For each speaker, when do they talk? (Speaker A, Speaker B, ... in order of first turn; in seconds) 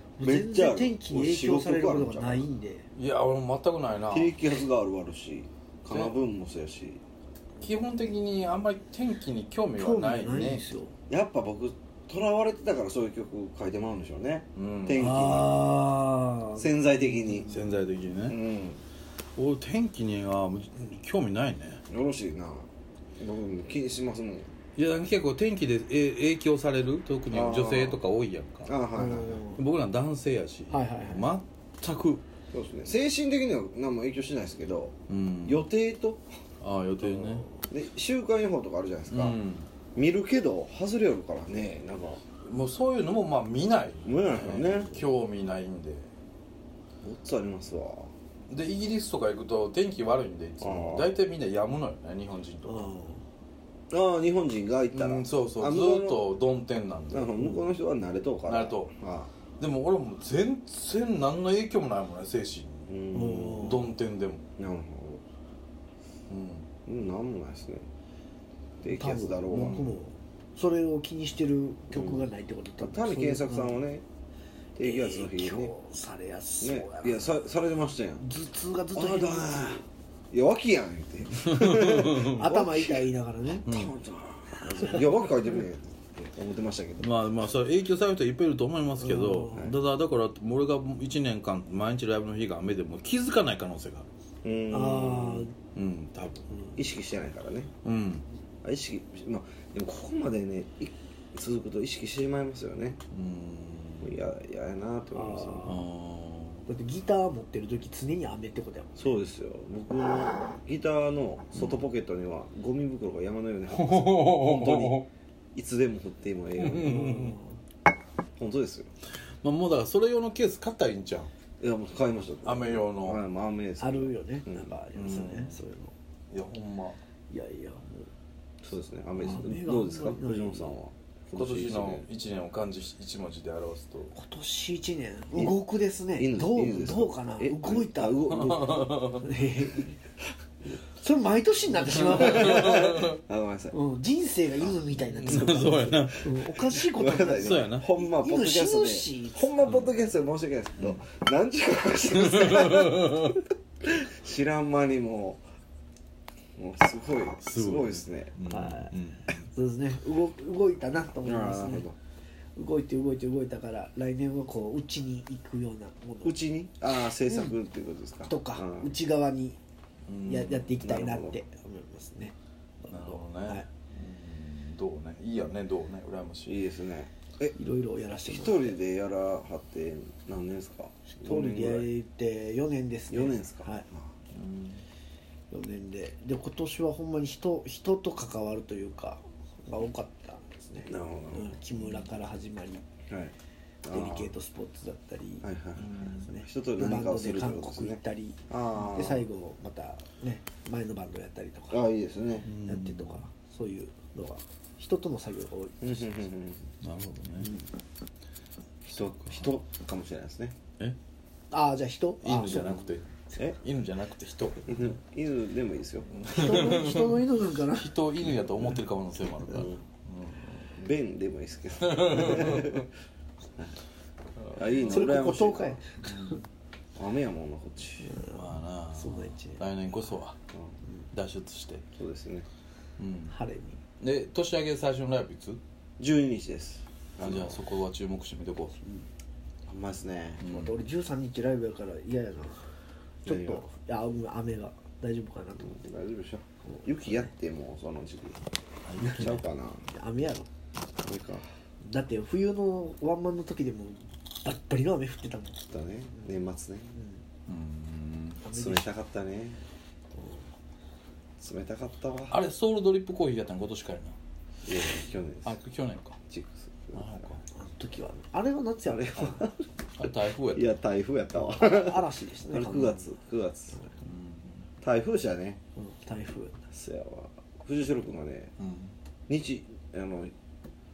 Speaker A: 0.2-2.9, 9.8-11.0, 15.0-17.7, 28.9-29.6, 30.7-31.3, 52.6-53.2, 63.1-63.9, 68.9-73.8, 74.8-77.4, 78.2-79.8, 82.2-83.7, 84.5-85.0, 89.0-89.6, 94.7-95.5, 105.1-105.8, 106.7-109.1, 116.8-117.6, 123.8-125.9, 127.3-128.1, 129.2-130.7, 134.2-138.3, 139.1-140.0, 141.0-143.1, 143.7-149.8, 158.5-158.9, 159.5-161.9, 162.6-166.4, 167.3-167.5, 168.3-169.6, 170.2-173.7, 177.6-178.8, 181.1-183.8, 185.5-192.9, 193.8-201.8, 202.4-206.1, 207.4-207.7, 211.5-212.8, 216.3-217.9, 224.8-226.4, 228.0-229.6, 233.3-233.8, 240.4-242.7, 243.2-245.8, 249.0-250.5, 251.8-255.6, 257.0-257.2, 258.4-258.9, 260.1-260.5, 267.6-269.5, 271.6-273.1, 275.8-276.6
Speaker B: 0.2-2.5, 4.1-7.0, 11.1-15.7, 16.6-17.5, 18.3-18.8, 21.9-22.7, 23.2-24.5, 27.3-28.0, 28.6-29.5, 32.5-36.3, 37.7-39.4, 40.0-42.2, 44.0-45.0, 47.0-48.1, 50.6-51.1, 53.9-56.3, 57.1-59.3, 62.9-63.7, 64.6-65.2, 66.9-67.9, 68.8-70.0, 71.9-74.0, 74.8-75.7, 76.6-78.3, 78.9-87.6, 89.5-89.8, 94.4-95.5, 96.8-97.7, 98.6-103.0, 104.0-105.8, 109.0-117.3, 118.4-118.9, 121.6-124.7, 128.6-132.1, 135.3-135.6, 136.2-139.2, 141.9-143.8, 145.2-145.5, 146.7-155.4, 156.6-158.4, 161.2-162.0, 166.2-168.9, 170.8-171.4, 176.4-177.6, 178.2-181.9, 183.1-184.1, 190.8-191.6, 193.1-194.3, 195.4-199.3, 201.7-202.5, 205.8-206.7, 208.9-210.6, 214.7-216.6, 219.5-219.8, 220.7-222.9, 224.5-225.8, 227.0-228.2, 232.0-232.5, 236.0-237.7, 239.7-240.4, 243.3-243.7, 245.6-248.4, 249.0-249.9, 251.0-251.4, 255.7-257.0, 258.5-259.6, 261.4-262.4, 264.6-265.6, 266.3-267.3, 268.9-269.6, 270.5-273.9, 274.8-275.6, 276.7-278.5, 279.3-280.3
Speaker C: 3.0-4.4, 5.9-6.2, 7.6-10.6, 14.6-15.1, 17.5-18.4, 19.4-21.8, 24.8-28.8, 29.6-32.2, 35.1-35.7, 36.6-37.5, 39.1-39.7, 42.4-46.1, 48.5-52.9, 54.9-57.7, 58.5-58.9, 59.6-62.9, 63.4-64.4, 66.3-66.7, 81.3-82.4, 83.7-84.0, 87.0-94.1, 95.7-96.5, 97.8-98.3, 103.1-104.2, 105.6-106.7, 111.5-111.9, 113.7-115.1, 116.6-117.4, 119.4-121.3, 122.4-123.2, 124.9-125.6, 126.3-127.0, 131.3-134.2, 138.4-139.3, 142.1-143.2, 145.2-146.8, 147.4-147.9, 152.2-153.4, 157.3-159.4, 170.1-170.8, 172.9-176.6, 184.3-184.8, 191.7-192.1, 195.8-196.3, 202.4-203.2, 206.8-207.5, 208.9-209.5, 212.2-214.9, 216.1-220.7, 221.8-222.9, 224.4-225.1, 226.0-226.4, 228.3-230.4, 231.1-231.9, 233.0-233.4, 234.0-235.6, 237.2-238.8, 240.4-240.8, 248.9-249.3, 257.5-258.5, 262.3-264.2, 265.4-266.2, 266.9-267.4, 270.0-270.8, 274.0-274.7, 278.6-278.9